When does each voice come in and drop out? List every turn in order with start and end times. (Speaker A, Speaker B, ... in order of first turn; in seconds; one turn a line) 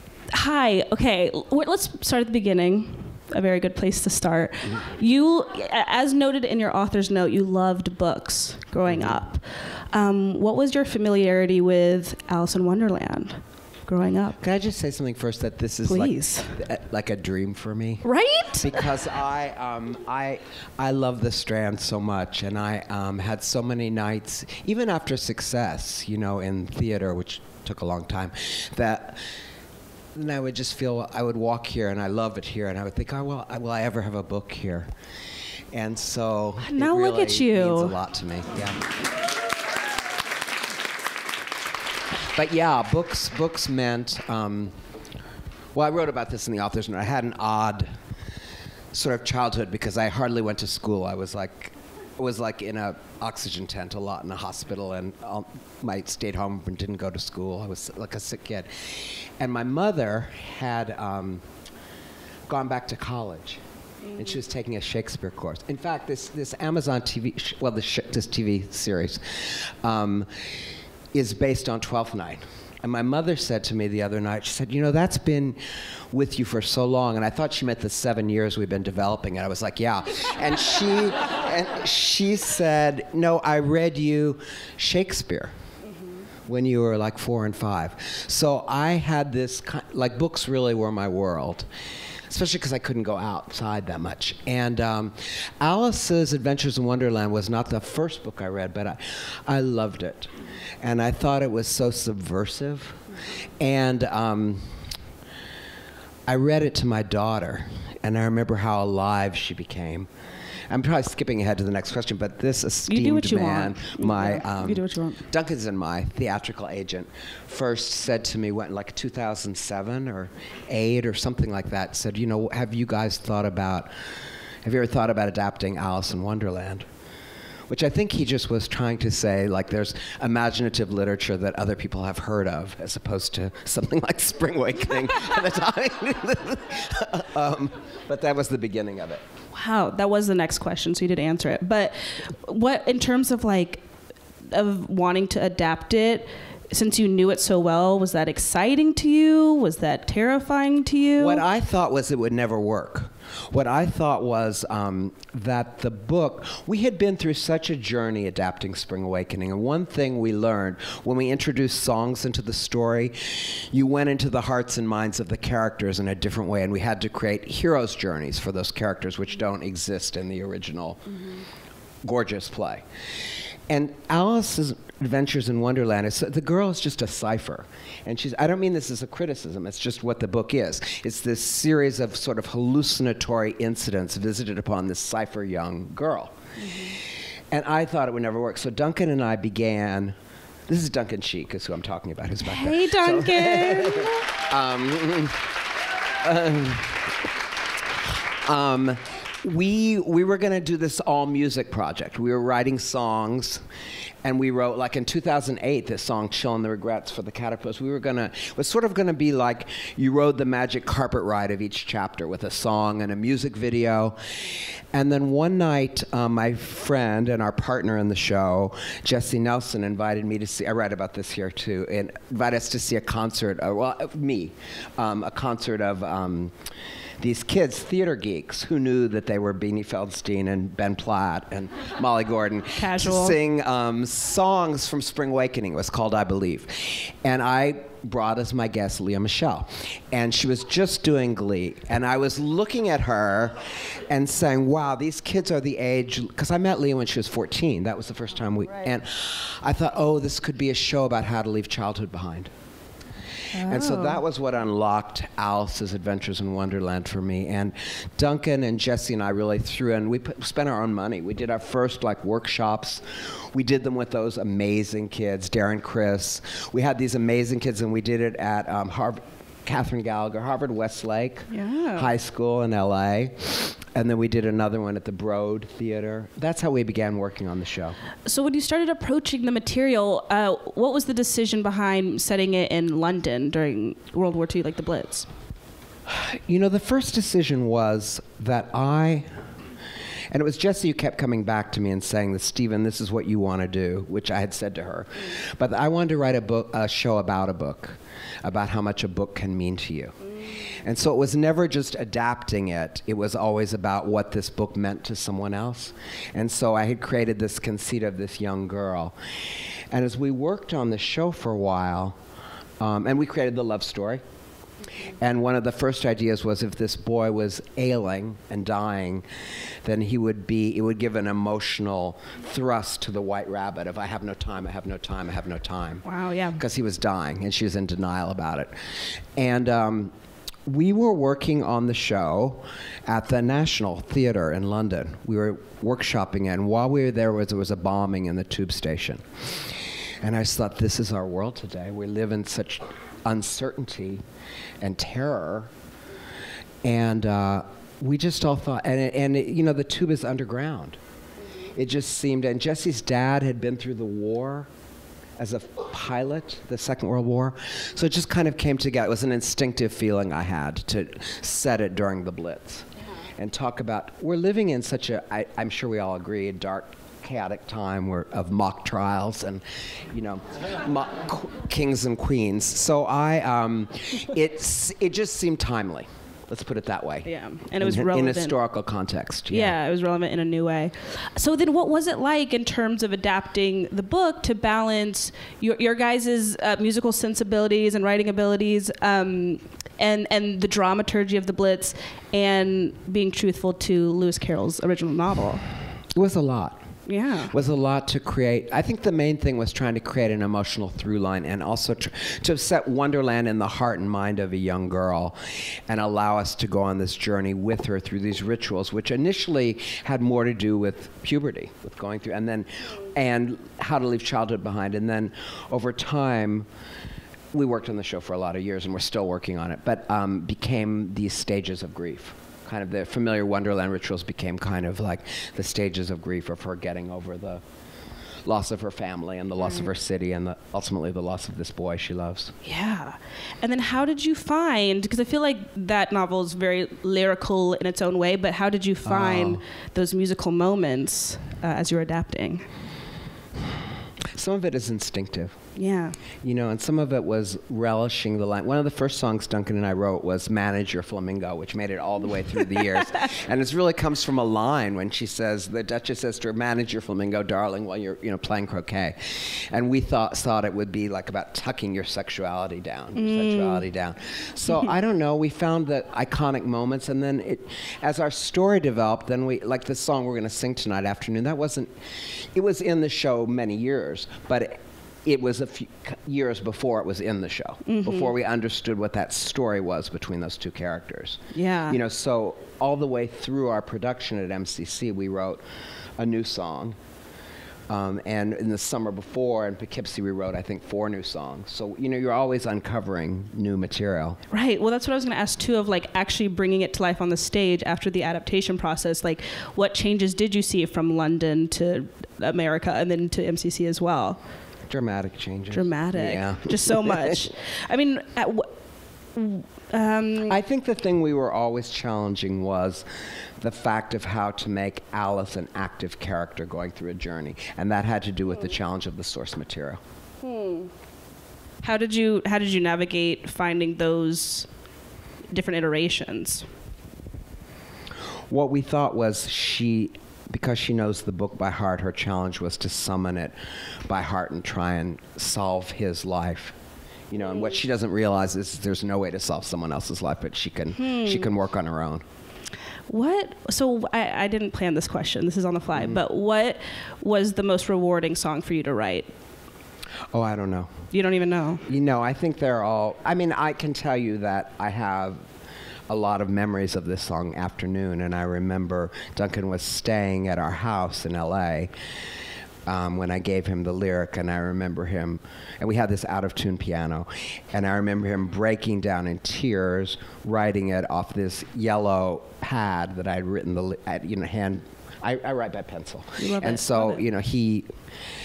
Speaker A: 0.3-14.4
Speaker B: 8.8-9.2
Speaker B: 14.4-29.2
Speaker A: 15.8-16.6
Speaker A: 18.0-18.9
Speaker B: 30.1-34.9
Speaker B: 35.7-38.8
Speaker A: 36.6-38.0
Speaker B: 42.3-44.8
Speaker B: 45.7-47.9
Speaker B: 48.9-61.4
Speaker B: 62.5-63.6
Speaker B: 64.1-70.3
Speaker B: 71.1-85.5
Speaker B: 86.5-91.7
Speaker B: 92.3-103.0
Speaker B: 103.6-104.8
Speaker B: 106.3-110.1
Speaker B: 110.7-126.9
Speaker A: 112.9-115.2
Speaker B: 127.7-139.2
Speaker A: 139.5-143.8
Speaker A: 144.5-151.4
Speaker B: 151.2-171.2
Speaker B: 172.0-172.8
Speaker B: 173.7-186.4
Speaker A: 186.6-187.0
Speaker B: 187.5-190.2
Speaker B: 190.7-195.5
Speaker A: 192.4-194.3
Speaker B: 196.2-197.1
Speaker B: 198.4-203.6
Speaker B: 204.2-226.5
Speaker B: 227.2-252.5
Speaker A: 232.8-233.4
Speaker A: 253.5-254.2
Speaker B: 253.6-278.0
Speaker A: 271.5-272.1
Speaker A: 278.2-285.3
Speaker B: 286.1-289.3
Speaker B: 290.3-309.1
Speaker B: 309.9-312.2
Speaker B: 312.8-314.2
Speaker B: 315.1-319.2
Speaker B: 319.8-328.7
Speaker A: 326.0-326.6
Speaker B: 329.4-330.1
Speaker B: 330.6-344.2
Speaker B: 344.8-345.7
Speaker B: 346.8-351.0
Speaker B: 351.7-354.7
Speaker B: 355.4-377.3
Speaker A: 377.2-378.6
Speaker B: 377.8-379.8
Speaker A: 379.5-395.6
Speaker B: 396.1-396.8
Speaker A: 397.1-397.5
Speaker B: 397.5-416.7
Speaker B: 417.5-427.6
Speaker B: 428.4-432.5
Speaker A: 432.6-442.6
Speaker B: 439.0-439.6
Speaker B: 444.3-445.6
Speaker A: 445.8-446.2
Speaker B: 446.4-485.6
Speaker A: 463.1-463.8
Speaker A: 477.9-478.3
Speaker A: 481.5-482.0
Speaker B: 486.2-487.0
Speaker B: 487.9-494.4
Speaker A: 494.5-504.4
Speaker B: 504.9-507.5
Speaker A: 505.7-508.7
Speaker A: 509.3-510.6
Speaker B: 510.4-513.1
Speaker B: 513.6-520.0
Speaker A: 520.4-520.9
Speaker A: 521.8-524.7
Speaker A: 525.5-526.6
Speaker B: 528.5-536.8
Speaker B: 537.3-542.2
Speaker A: 540.9-541.5
Speaker A: 543.1-549.3
Speaker B: 545.9-546.2
Speaker B: 550.3-551.0
Speaker A: 551.1-551.8
Speaker B: 551.9-555.5
Speaker B: 556.1-561.9
Speaker B: 562.9-577.9
Speaker A: 576.4-577.2